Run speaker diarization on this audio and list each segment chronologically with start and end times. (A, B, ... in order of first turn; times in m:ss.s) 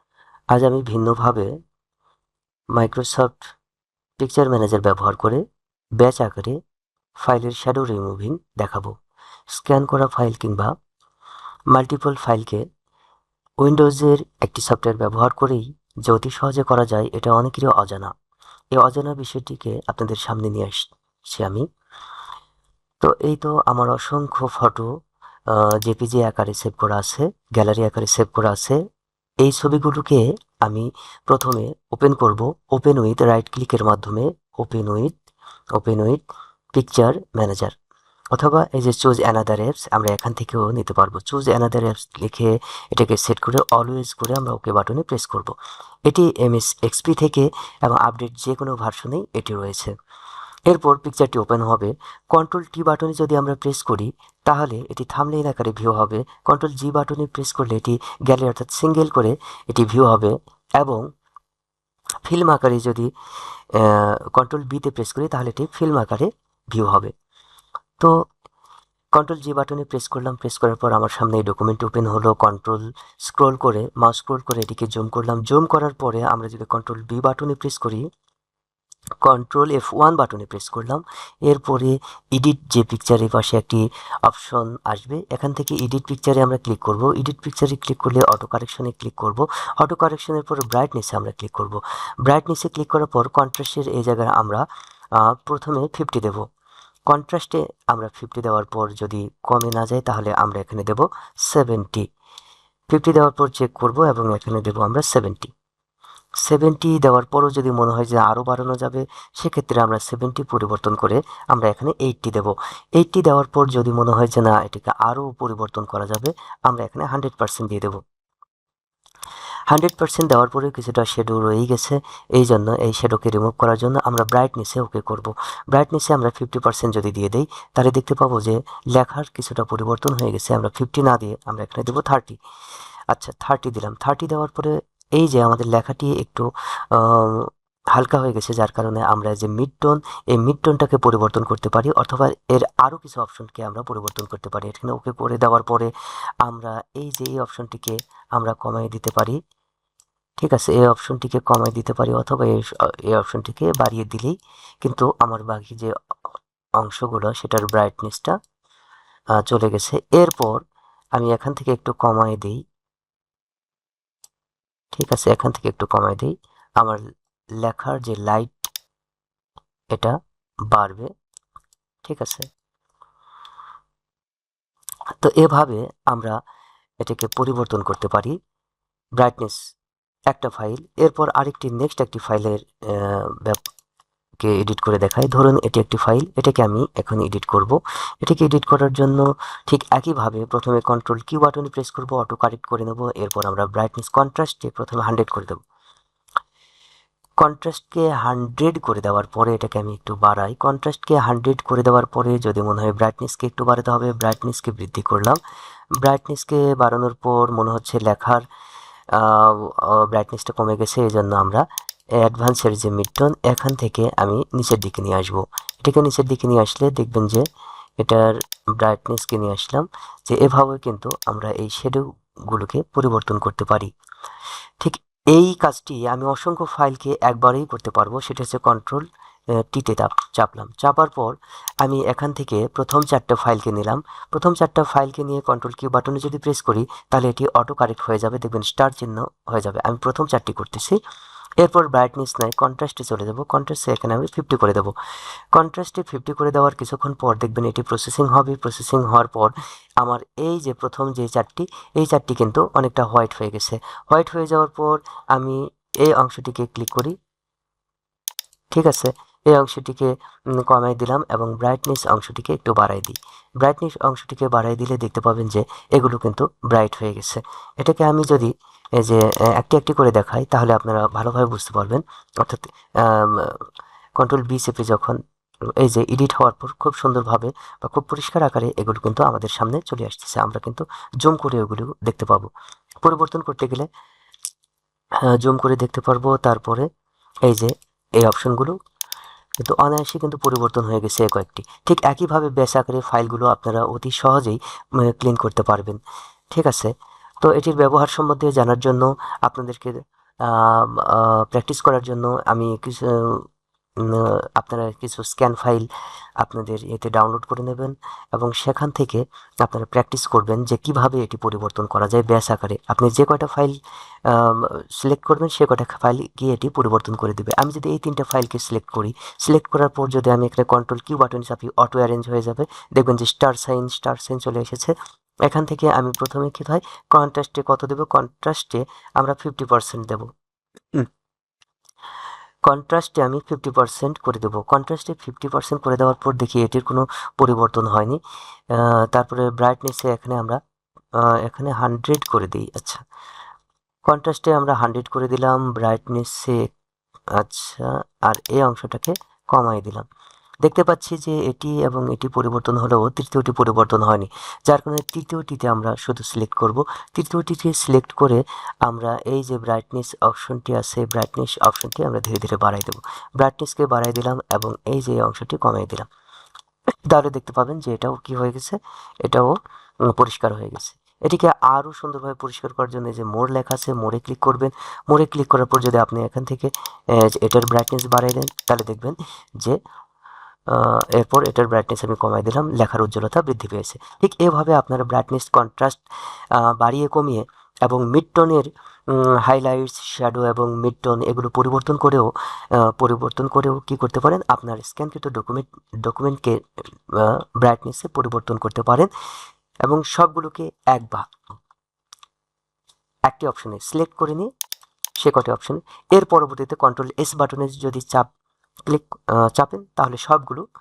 0:00.5-0:01.5 A
0:02.7-0:03.5 A
0:04.2-0:05.4 A
0:06.0-0:06.6 A
0:07.2-0:08.9 A
0:09.5-0:10.7 A
0:11.7-0:12.6 A
0:13.6-0:18.1 A
0:18.7-0:21.6 A
0:23.0-0:24.9 A
0:25.5-0:28.8 A
0:29.4-0:35.1 A
0:35.8-0:36.2 A
0:36.7-0:37.7 A
0:38.3-0:45.5 A
0:46.1-0:49.9 A
0:50.7-1:01.0 A
1:02.2-1:03.1 A
1:03.7-1:07.1 A
1:09.1-1:18.0 A
1:19.2-1:34.6 A
1:35.2-1:36.5 A
1:37.1-1:42.0 A
1:42.9-1:45.5 A
1:46.4-1:58.0 A
1:59.7-2:12.4 A
2:13.1-2:25.9 A
2:26.4-2:29.4 A
2:30.4-2:35.9 A
2:36.8-2:38.4 A
2:39.4-2:40.6 A
2:41.2-2:42.6 A
2:44.9-2:47.0 A
2:47.6-2:48.7 A
2:50.7-2:51.1 A
2:52.0-2:52.5 A
2:55.2-2:56.4 A
2:57.0-2:58.3 A
2:59.2-2:59.6 A
3:00.3-3:03.6 A
3:04.4-3:15.6 A
3:17.4-3:25.4 A
3:26.0-3:28.4 A
3:29.1-3:31.6 A
3:32.2-3:37.4 A
3:38.0-3:43.9 A
3:44.8-3:49.0 A
3:49.6-4:01.0 A
4:01.6-4:04.9 A
4:05.5-4:17.1 A
4:18.7-4:20.1 A
4:20.6-4:33.6 A
4:34.2-4:35.2 A
4:35.8-4:42.5 A
4:43.0-4:43.9 A
4:45.2-4:46.9 A
4:47.5-4:48.7 A
4:49.6-4:56.0 A
4:56.5-5:03.4 A
5:04.0-5:05.9 A
5:06.4-5:24.9 A
5:25.5-5:30.3 A
5:32.7-5:40.6 A
5:41.2-5:43.0 A
5:44.0-5:46.7 A
5:47.4-5:50.0 A
5:50.6-6:06.1 A
6:07.1-6:09.5 A
6:10.1-6:19.8 A
6:20.7-6:26.0 A
6:26.5-6:32.3 A
6:32.8-6:36.6 A
6:37.1-6:39.1 A
6:39.8-6:41.2 A
6:43.3-6:44.5 A
6:45.2-6:48.3 A
6:48.9-6:50.6 A